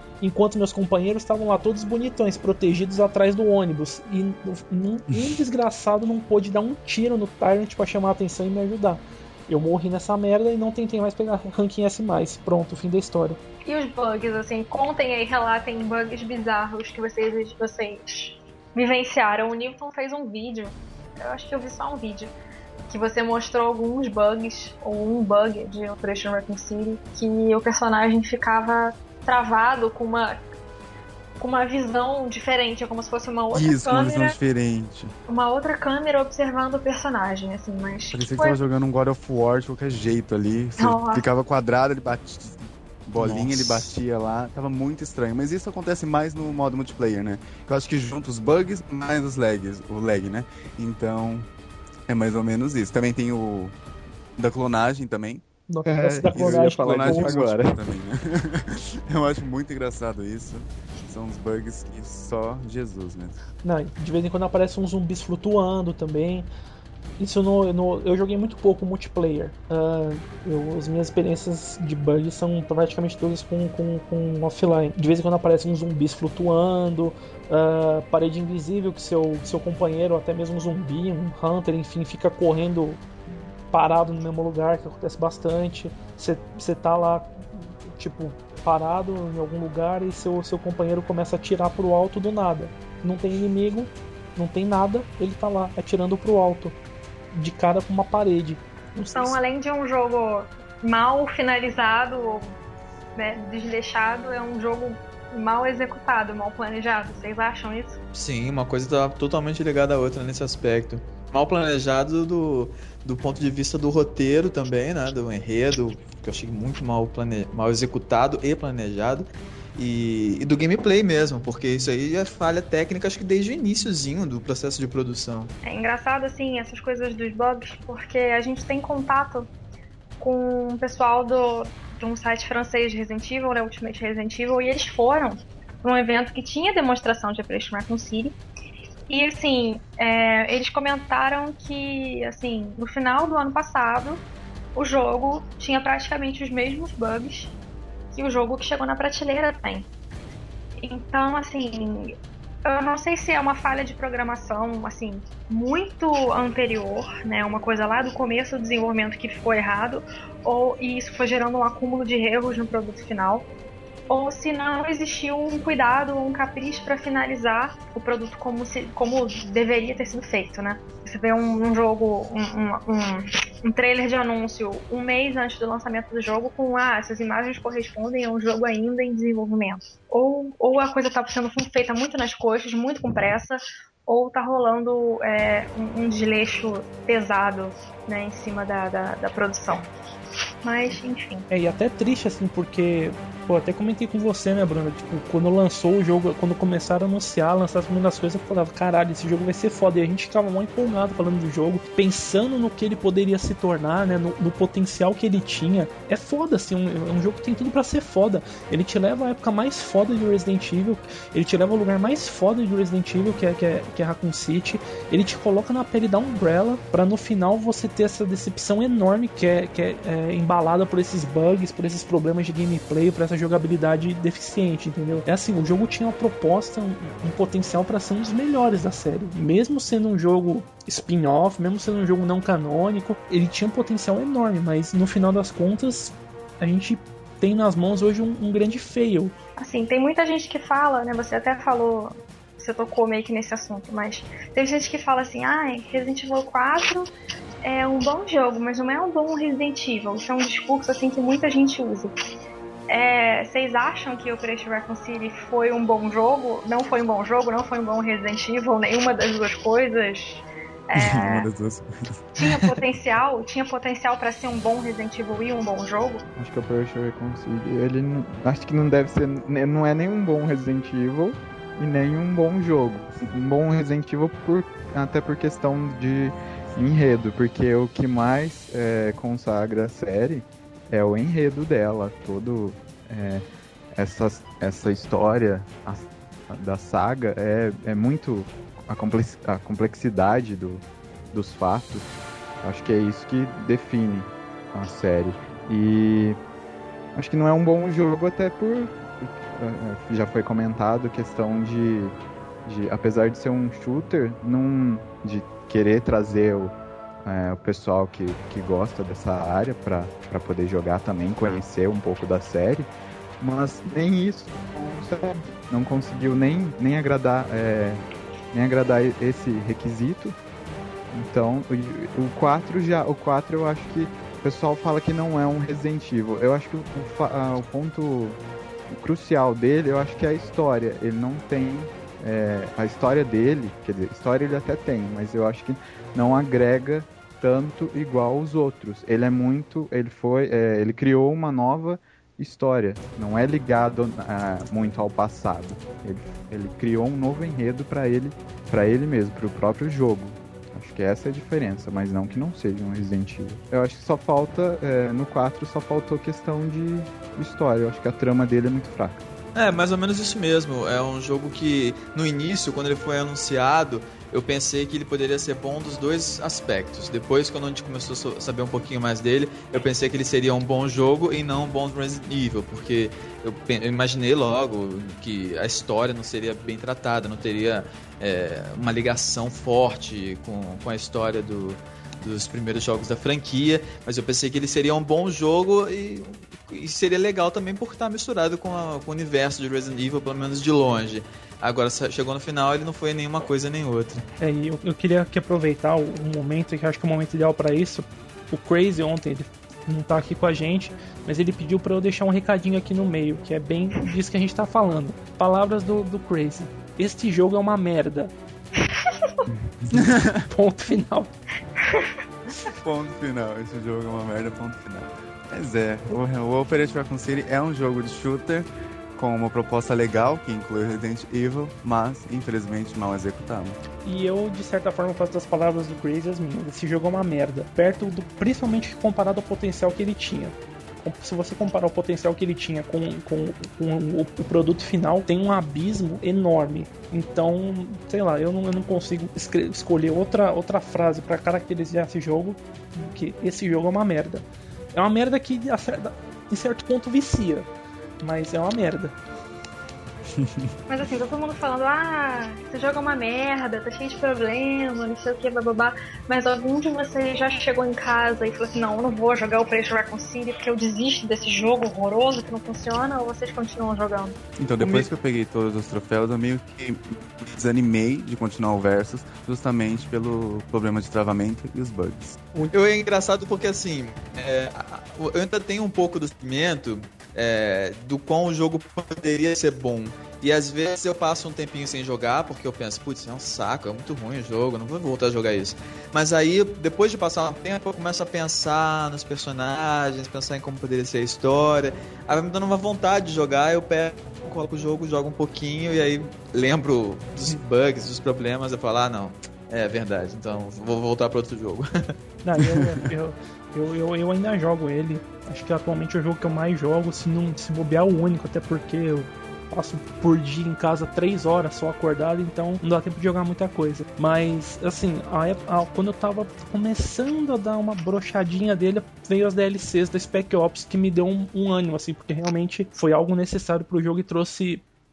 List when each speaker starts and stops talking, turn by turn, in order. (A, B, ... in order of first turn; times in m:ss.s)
0:00.2-0:13.4 A
0:13.6-0:22.3 B
0:22.9-0:30.4 B
0:31.4-0:34.4 B
0:33.5-0:35.1 C
0:35.3-0:38.6 B
0:38.1-0:51.5 C
0:40.8-0:41.2 B
0:43.2-0:43.7 A
0:52.1-0:53.8 C
0:54.4-0:55.4 C
0:55.7-0:57.4 A
0:55.8-0:57.8 D
0:56.2-1:03.4 C
1:03.6-1:06.5 A
1:07.2-1:23.0 A
1:23.7-1:36.8 A
1:37.3-1:39.4 A
1:39.1-1:42.6 B
1:43.2-1:48.0 B
1:48.1-2:05.5 E
2:05.6-2:09.5 B
2:10.2-2:18.4 B
2:19.1-2:27.6 B
2:28.1-2:29.9 B
2:30.8-2:43.5 B
2:44.1-3:09.9 B
3:10.6-3:11.5 B
3:11.5-3:59.3 A
3:59.6-4:07.1 B
4:07.6-4:12.1 B
4:12.9-4:21.5 B
4:21.0-4:22.8 C
4:22.3-4:26.2 B
4:26.4-4:43.4 D
4:43.9-4:52.1 D
4:52.6-4:56.4 D
4:57.1-5:20.4 D
5:21.1-5:59.2 D
5:59.5-6:34.2 E
6:34.4-6:48.3 A
6:48.9-6:49.4 B
6:49.9-6:50.4 C
6:50.5-6:51.3 A
6:51.8-6:52.2 B
6:52.8-7:03.8 C
7:04.0-7:27.7 A
7:28.2-7:29.2 A
7:30.4-7:30.7 C
7:30.9-7:44.4 B
7:44.6-7:52.4 C
7:44.8-7:45.1 E
7:52.7-8:22.1 E
8:22.4-8:44.8 A
8:22.7-8:23.0 C